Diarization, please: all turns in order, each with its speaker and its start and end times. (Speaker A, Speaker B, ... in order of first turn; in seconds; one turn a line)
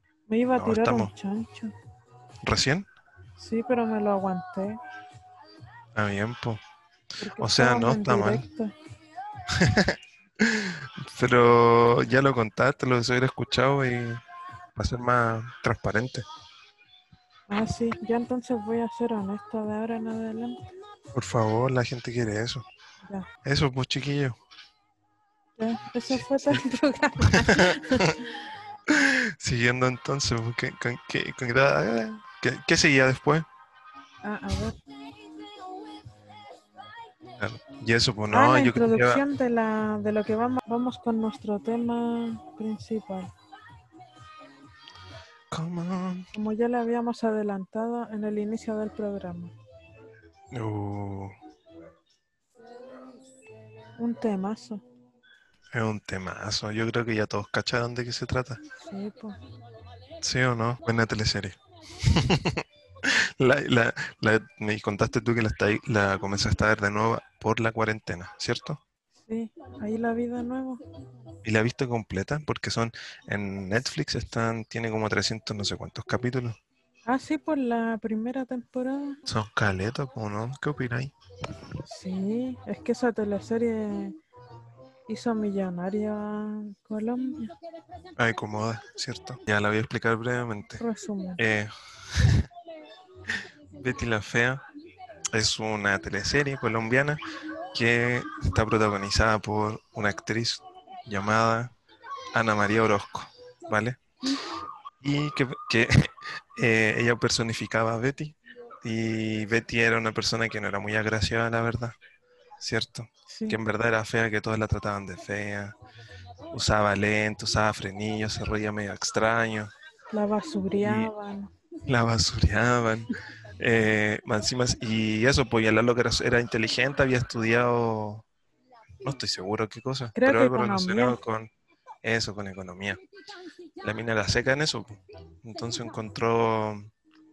Speaker A: 0.3-1.7
Speaker B: 0.5-1.1
Speaker B: 2.4-2.9
Speaker A: 3.4-4.8
Speaker B: 5.9-6.6
Speaker A: 7.2-8.7
Speaker B: 7.4-8.4
Speaker B: 9.5-14.2
Speaker B: 14.8-16.2
Speaker A: 17.5-20.6
Speaker B: 21.1-22.6
Speaker B: 23.4-24.4
Speaker A: 25.6-28.3
Speaker B: 26.1-26.6
Speaker B: 27.2-28.2
Speaker B: 28.9-33.5
Speaker A: 34.2-34.8
Speaker B: 37.4-39.2
Speaker A: 38.3-43.3
Speaker B: 45.5-46.3
Speaker A: 46.3-49.5
Speaker B: 50.5-51.4
Speaker A: 54.0-54.8
Speaker B: 55.7-58.6
Speaker A: 58.8-59.4
Speaker B: 60.2-68.8
Speaker A: 69.2-70.8
Speaker B: 71.4-76.6
Speaker A: 77.0-79.2
Speaker B: 79.3-81.1
Speaker A: 81.8-84.2
Speaker A: 85.1-87.5
Speaker B: 88.2-90.8
Speaker A: 90.8-91.4
Speaker B: 91.4-92.5
Speaker B: 93.7-94.6
Speaker B: 95.3-97.2
Speaker B: 97.7-101.7
Speaker B: 102.3-104.0
Speaker B: 105.0-112.0
Speaker B: 112.6-115.7
Speaker A: 113.3-113.6
Speaker B: 116.5-119.7
Speaker A: 120.1-121.5
Speaker B: 120.8-121.1
Speaker B: 121.9-128.2
Speaker B: 129.0-131.5
Speaker A: 130.2-131.2
Speaker B: 132.0-133.0
Speaker B: 133.8-136.9